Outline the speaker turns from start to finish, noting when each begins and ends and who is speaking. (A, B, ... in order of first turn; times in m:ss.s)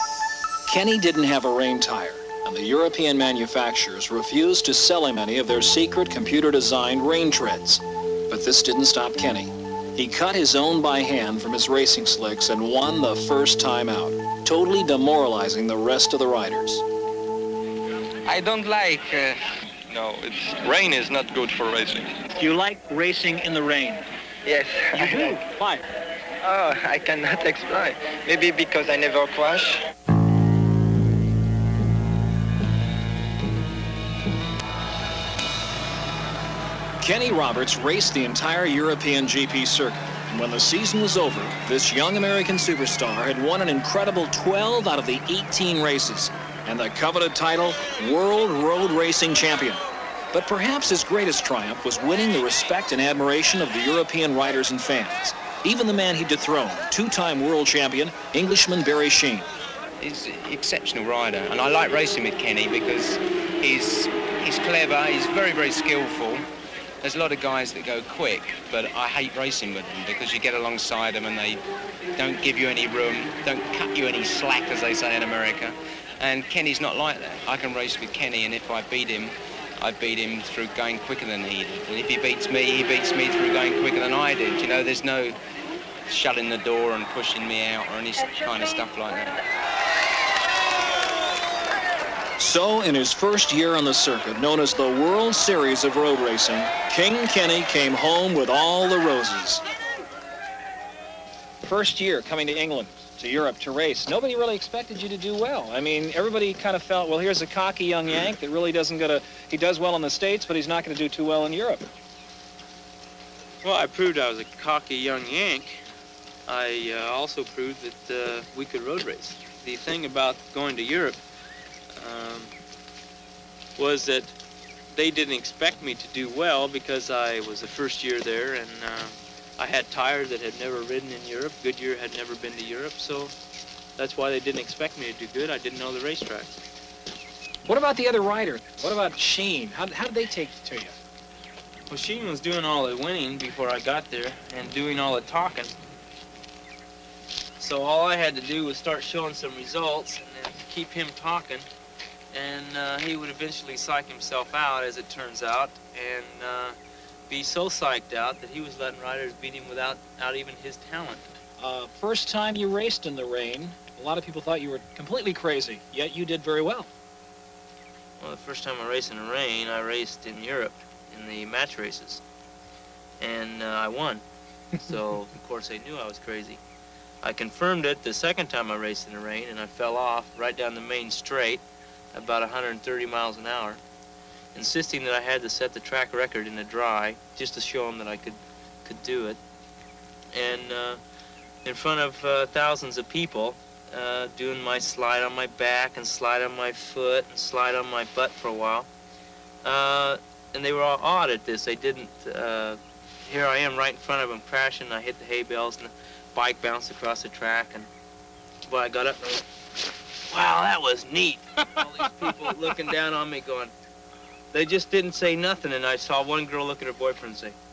0:00.6-0:16.8 A
0:19.9-0:22.1 B
0:22.3-0:24.1 A
0:24.4-0:25.4 C
0:24.9-0:25.8 A
0:26.4-0:29.8 C
0:37.0-0:59.5 A
1:00.0-1:06.4 D
1:07.0-1:11.6 D
1:12.2-1:25.4 D
1:26.0-1:29.4 D
1:32.4-1:39.6 A
1:41.6-1:51.9 A
1:53.6-1:55.8 E
1:56.5-2:01.2 E
2:02.0-2:02.5 E
2:03.8-2:04.3 E
2:04.9-2:13.3 E
2:14.0-2:16.6 E
2:17.6-2:20.9 A
2:21.9-2:25.7 E
2:27.6-2:31.7 E
2:32.3-2:36.8 E
2:37.3-2:41.3 E
2:41.6-2:46.9 A
2:48.2-2:52.2 E
2:53.2-2:54.2 E
2:54.8-2:56.6 E
2:57.2-3:01.6 E
3:02.1-3:03.8 E
3:04.5-3:09.4 E
3:10.3-3:11.0 E
3:11.6-3:18.9 E
3:19.6-3:27.9 E
3:28.6-3:29.4 E
3:30.3-3:33.7 E
3:34.5-3:37.6 E